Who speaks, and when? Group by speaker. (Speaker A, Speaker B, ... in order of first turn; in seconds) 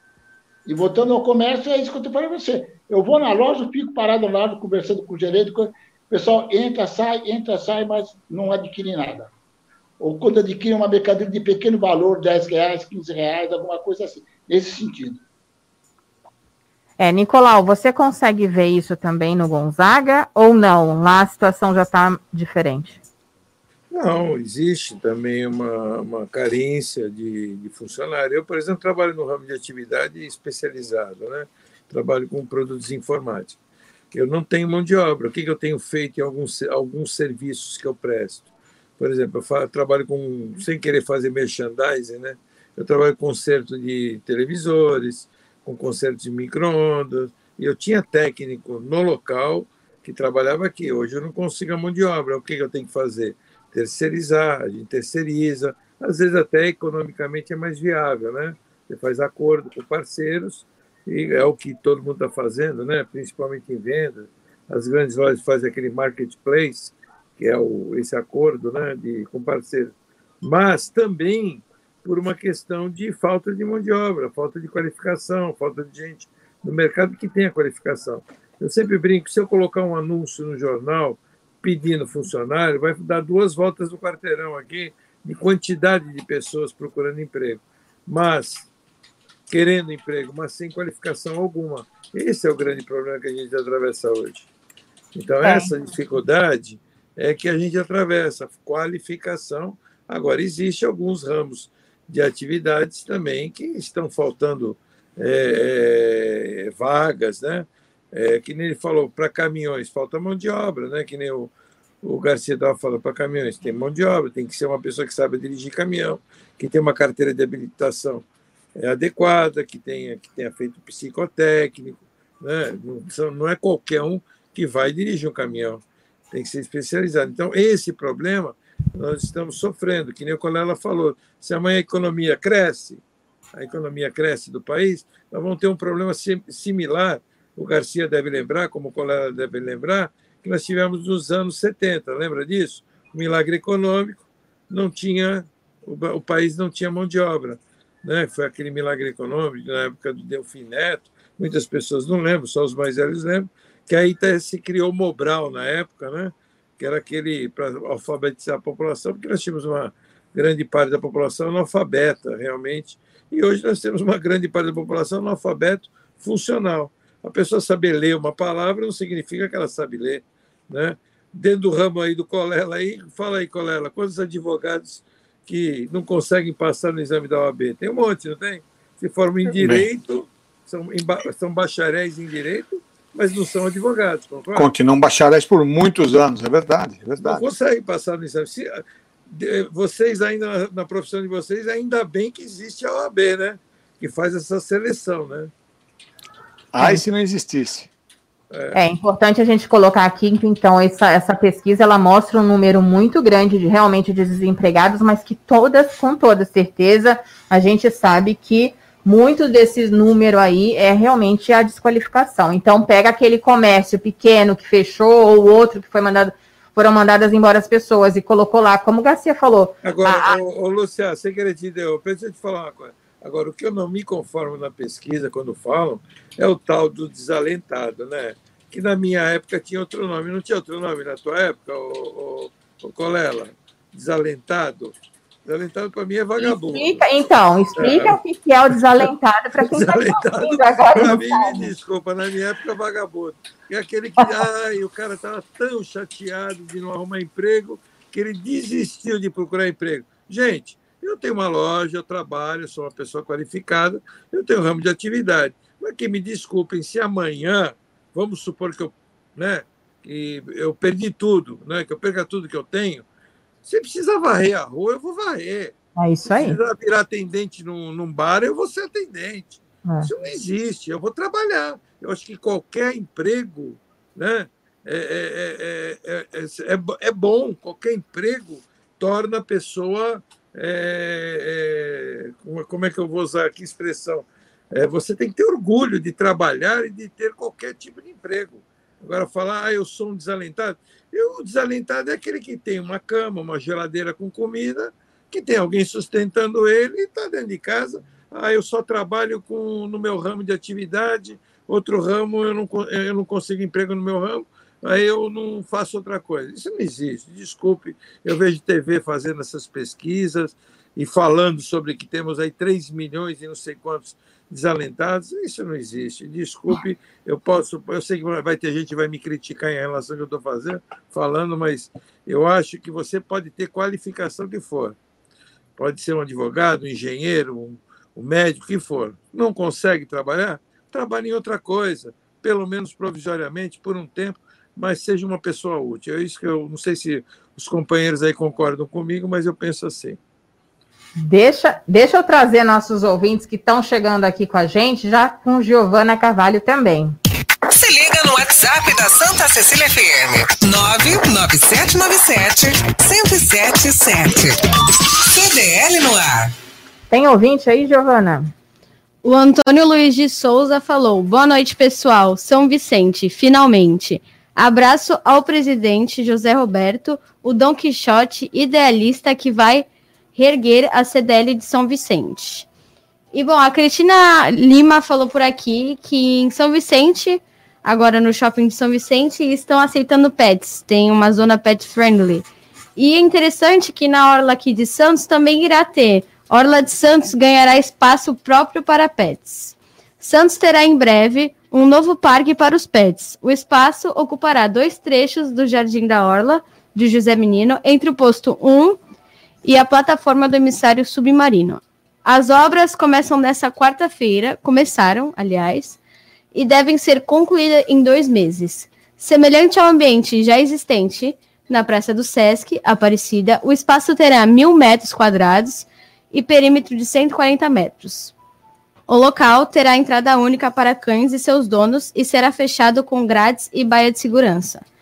Speaker A: 0.7-9.3, 10.0-15.2
Speaker B: 17.0-23.0, 95.4-95.7, 198.7-220.4, 236.4-241.7, 266.0-266.6, 341.2-347.2, 357.1-358.5
Speaker C: 23.9-33.6, 34.1-38.5, 39.0-88.7, 89.5-94.5, 95.2-111.5, 112.0-118.2, 118.8-133.0, 133.5-184.7, 187.2-195.5, 198.5-198.8, 219.8-237.1, 237.8-238.2, 238.9-263.1, 263.6-325.0, 325.8-340.2
Speaker D: 179.5-179.9, 184.6-187.5, 196.7-197.9
Speaker E: 347.7-354.6, 355.3-356.5
Speaker F: 359.2-372.7, 373.3-399.0, 399.6-406.0, 406.5-418.3, 419.1-424.8